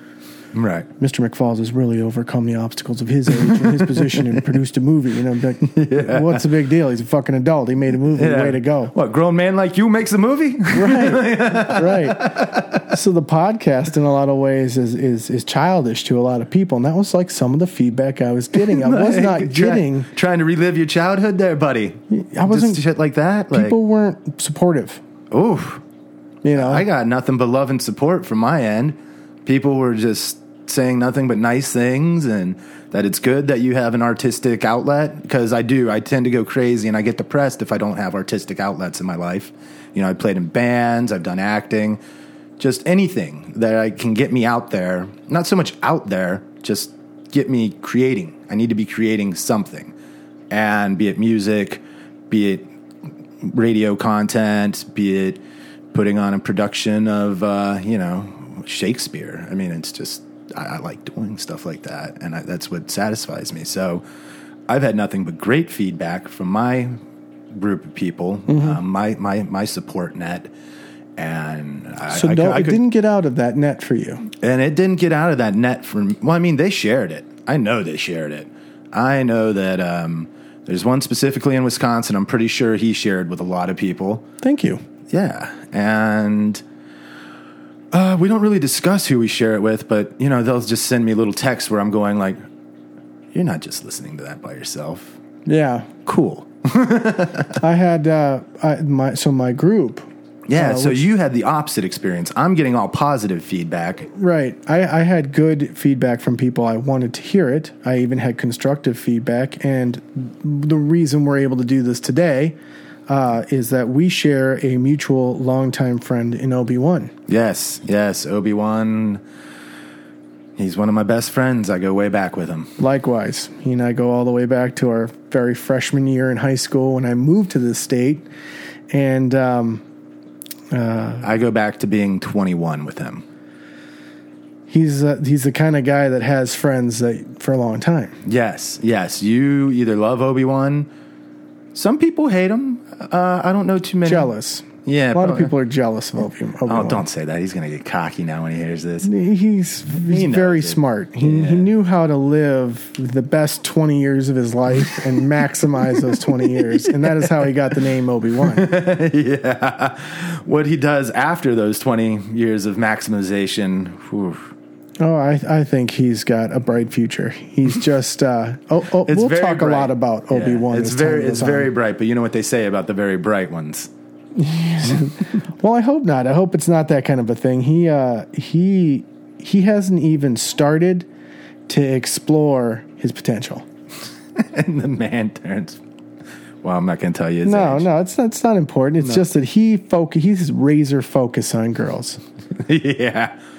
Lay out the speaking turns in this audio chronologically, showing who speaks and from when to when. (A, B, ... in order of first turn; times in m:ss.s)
0:00.5-0:00.9 A
0:01.0-0:08.9 B
0:03.4-0:04.3 A
0:05.7-0:06.4 A
0:08.1-0:12.9 A
0:10.7-0:20.1 B
0:18.5-0:23.8 A
0:22.1-0:22.8 B
0:23.5-0:25.0 B
0:25.3-0:25.8 A
0:26.4-0:26.8 B
0:26.5-0:42.0 A
0:42.6-0:49.9 A
0:50.5-0:52.7 A
0:53.4-0:55.4 A
0:55.9-1:04.0 A
1:04.7-1:07.0 A
1:07.5-1:10.5 A
1:08.5-1:08.8 B
1:11.2-1:12.8 A
1:12.1-1:14.2 B
1:14.4-1:24.2 A
1:24.4-1:24.8 B
1:25.1-1:26.6 A
1:27.9-1:32.4 A
1:33.3-1:35.2 A
1:35.4-1:35.9 B
1:36.0-1:37.6 A
1:37.6-1:41.0 B
1:40.5-1:44.1 A
1:44.1-1:52.6 B
1:53.1-1:57.1 B
1:57.3-1:59.2 A
2:00.6-2:02.7 A
2:02.8-2:08.3 B
2:08.9-2:09.8 B
2:10.7-2:11.3 B
2:11.2-2:13.2 A
2:14.7-2:18.2 B
2:18.2-2:20.9 A
2:21.7-2:24.3 A
2:24.0-2:27.0 B
2:24.8-2:25.5 A
2:26.6-2:29.1 A
2:29.0-2:38.7 B
2:30.0-2:31.7 A
2:37.0-2:37.3 A
2:38.4-2:44.5 A
2:45.0-2:51.7 B
2:49.0-2:53.9 A
2:54.3-3:01.1 B
3:01.7-3:03.6 B
3:04.3-3:05.8 A
3:06.6-3:07.9 A
3:07.4-3:12.2 B
3:12.6-3:13.3 A